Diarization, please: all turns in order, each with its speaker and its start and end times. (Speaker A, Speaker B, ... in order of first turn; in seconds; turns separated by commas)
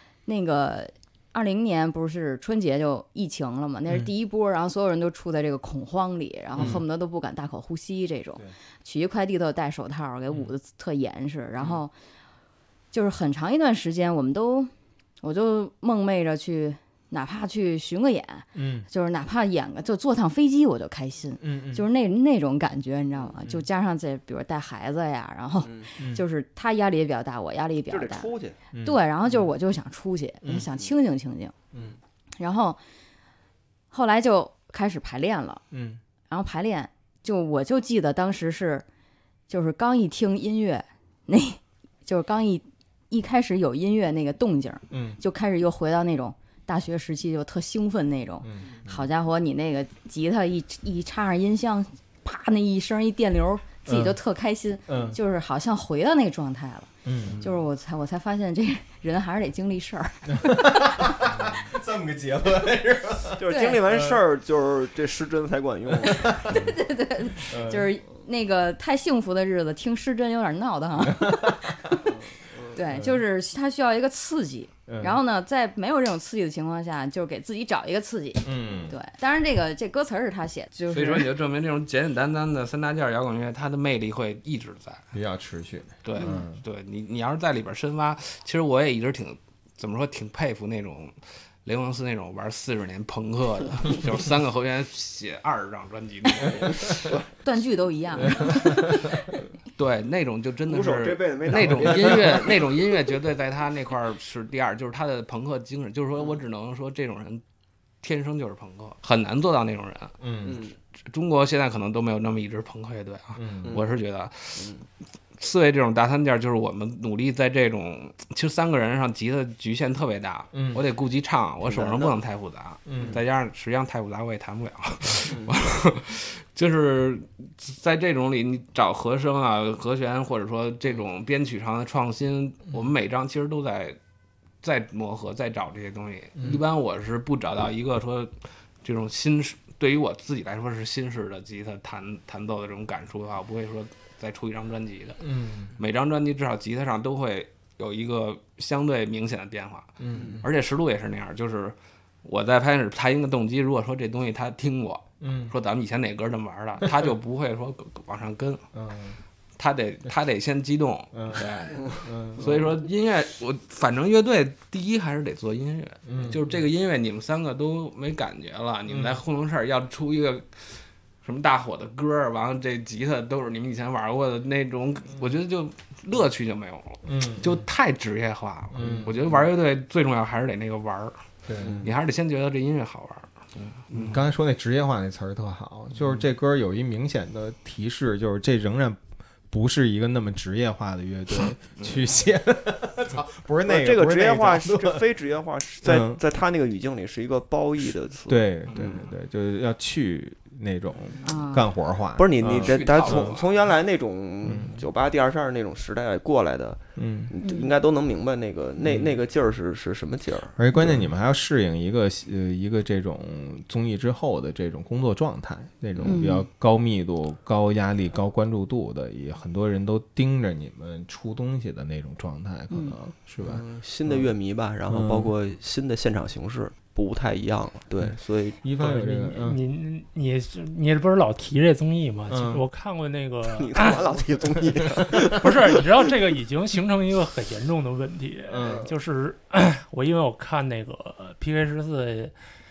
Speaker A: 0.3-11.9, Speaker B: 6.5-6.8, Speaker A: 12.9-14.7, Speaker A: 15.2-31.5, Speaker B: 18.6-18.9, Speaker B: 21.4-21.9, Speaker C: 25.6-25.9, Speaker B: 26.0-26.2, Speaker C: 27.9-28.6, Speaker B: 28.7-29.0, Speaker A: 32.4-32.8, Speaker A: 33.9-35.6, Speaker B: 35.7-36.0, Speaker A: 36.3-38.9, Speaker A: 39.5-61.1, Speaker B: 44.9-45.2, Speaker B: 48.4-49.1, Speaker B: 53.9-54.2, Speaker B: 54.9-55.2, Speaker B: 57.0-57.5, Speaker C: 57.2-57.5, Speaker B: 60.3-64.2, Speaker C: 63.4-66.6, Speaker A: 63.5-63.8, Speaker B: 66.0-66.8, Speaker A: 66.1-72.0, Speaker B: 67.4-67.9, Speaker B: 71.0-72.0, Speaker C: 72.0-72.8, Speaker A: 72.7-81.3, Speaker B: 72.9-73.2, Speaker B: 74.9-75.2, Speaker B: 78.4-79.0, Speaker D: 80.9-85.0, Speaker B: 85.1-86.6, Speaker D: 86.0-97.2, Speaker A: 86.2-86.4, Speaker A: 97.4-99.3, Speaker B: 98.4-99.0, Speaker D: 99.7-107.4, Speaker C: 100.7-103.1, Speaker B: 101.6-102.1, Speaker D: 108.0-110.2, Speaker B: 110.2-110.6, Speaker C: 110.4-110.8, Speaker D: 111.1-114.7, Speaker B: 113.3-113.8, Speaker C: 114.5-114.8, Speaker D: 115.4-134.0, Speaker B: 120.5-120.8, Speaker C: 121.6-122.1, Speaker B: 122.9-123.2, Speaker C: 123.0-123.2, Speaker C: 125.3-125.5, Speaker D: 134.6-145.2, Speaker B: 136.4-136.6, Speaker B: 145.2-145.7, Speaker D: 145.8-158.6, Speaker B: 150.0-150.5, Speaker C: 150.1-150.4, Speaker B: 155.2-155.6, Speaker B: 156.8-157.1, Speaker B: 158.7-159.2, Speaker D: 159.6-181.2, Speaker B: 161.1-162.7, Speaker B: 166.1-166.6, Speaker B: 168.9-169.2, Speaker B: 177.0-177.7, Speaker B: 178.7-179.4, Speaker B: 181.4-181.9, Speaker C: 181.6-181.9, Speaker D: 181.8-184.2, Speaker B: 183.9-195.1, Speaker C: 193.7-199.0, Speaker B: 195.8-196.2, Speaker B: 197.8-203.4, Speaker D: 198.7-199.0, Speaker A: 201.2-201.7, Speaker C: 202.2-211.1, Speaker D: 202.4-203.6, Speaker B: 204.4-204.8, Speaker B: 206.9-207.3, Speaker A: 207.4-207.7, Speaker B: 208.8-209.1, Speaker B: 210.6-224.3, Speaker A: 216.1-216.4, Speaker A: 222.7-222.9, Speaker C: 223.4-228.6, Speaker B: 224.9-225.3, Speaker B: 228.0-229.6, Speaker E: 228.8-234.1, Speaker B: 232.3-232.6, Speaker C: 233.5-235.9, Speaker E: 235.1-242.3, Speaker B: 238.5-238.9, Speaker C: 238.6-238.9